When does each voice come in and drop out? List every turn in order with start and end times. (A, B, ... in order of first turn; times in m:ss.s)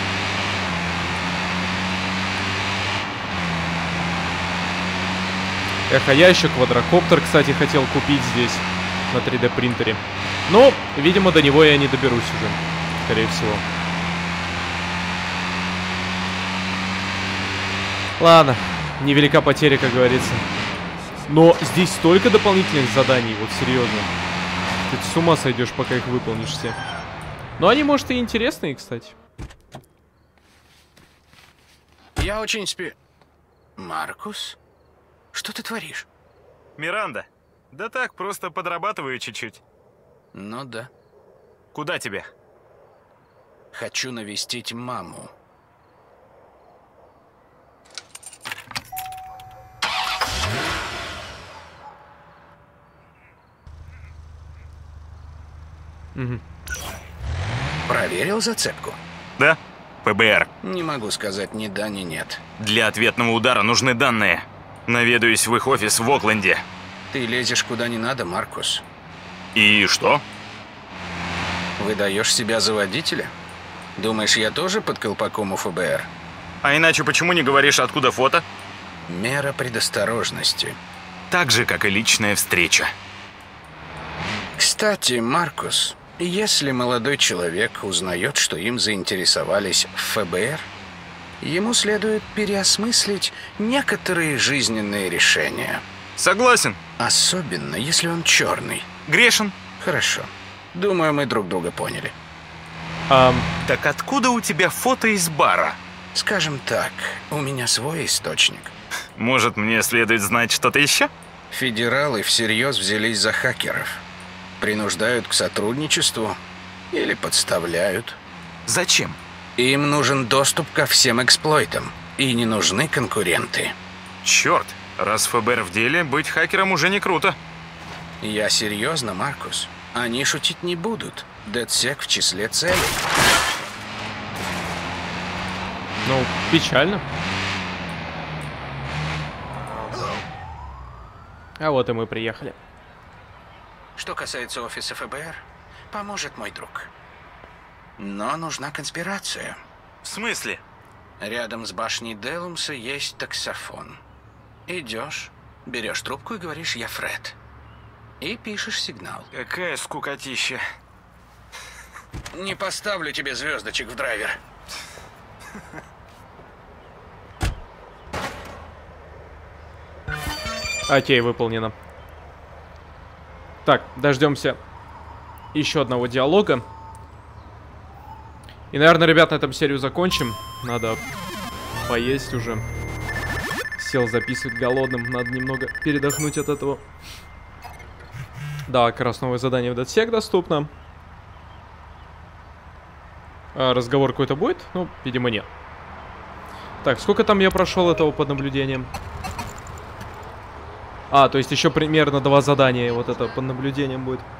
0:05.9-0:13.6 A
0:18.2-0:20.4 A
0:21.3-0:24.1 A
0:24.9-0:26.8 A
0:27.6-0:29.1 A
0:32.2-0:33.0 B
0:33.8-0:34.6 B
0:35.3-0:36.0 B
0:36.8-0:39.6 C
0:40.3-0:40.9 B
0:41.7-0:42.3 C
0:43.7-0:45.3 B
0:56.1-0:56.4 A
0:57.8-0:59.0 B
0:59.4-1:00.5 C
1:00.6-1:02.4 B
1:02.6-1:06.6 C
1:07.1-1:08.8 B
1:09.5-1:10.2 C
1:11.8-1:13.3 B
1:14.0-1:16.1 B
1:16.6-1:18.4 C
1:19.1-1:20.8 B
1:21.3-1:22.9 C
1:24.6-1:30.7 B
1:31.4-1:35.8 B
1:36.2-1:36.8 C
1:37.0-1:38.9 B
1:39.1-1:39.6 C
1:39.8-1:42.1 B
1:43.1-1:43.5 A
1:43.6-1:45.8 C
1:46.1-1:48.7 B
1:49.2-1:51.1 C
1:51.5-1:54.0 B
1:54.6-1:56.4 B
1:56.9-1:58.2 B
1:58.7-1:59.2 C
1:59.6-2:03.7 B
2:04.2-2:07.4 C
2:08.2-2:13.0 B
2:16.0-2:17.0 A
2:21.6-2:22.6 A
2:24.0-2:26.9 B
2:28.0-2:29.6 B
2:30.0-2:30.6 C
2:31.2-2:34.0 B
2:34.7-2:37.4 B
2:38.2-2:39.3 B
2:39.3-2:40.6 C
2:42.3-2:44.4 B
2:50.9-2:51.7 A
2:53.6-2:54.6 A
2:55.5-2:56.6 A
2:58.7-3:01.0 A
3:01.8-3:02.6 A
3:03.8-3:06.8 A
3:08.7-3:10.7 A
3:13.5-3:15.5 A
3:16.8-3:18.9 A
3:21.1-3:24.2 A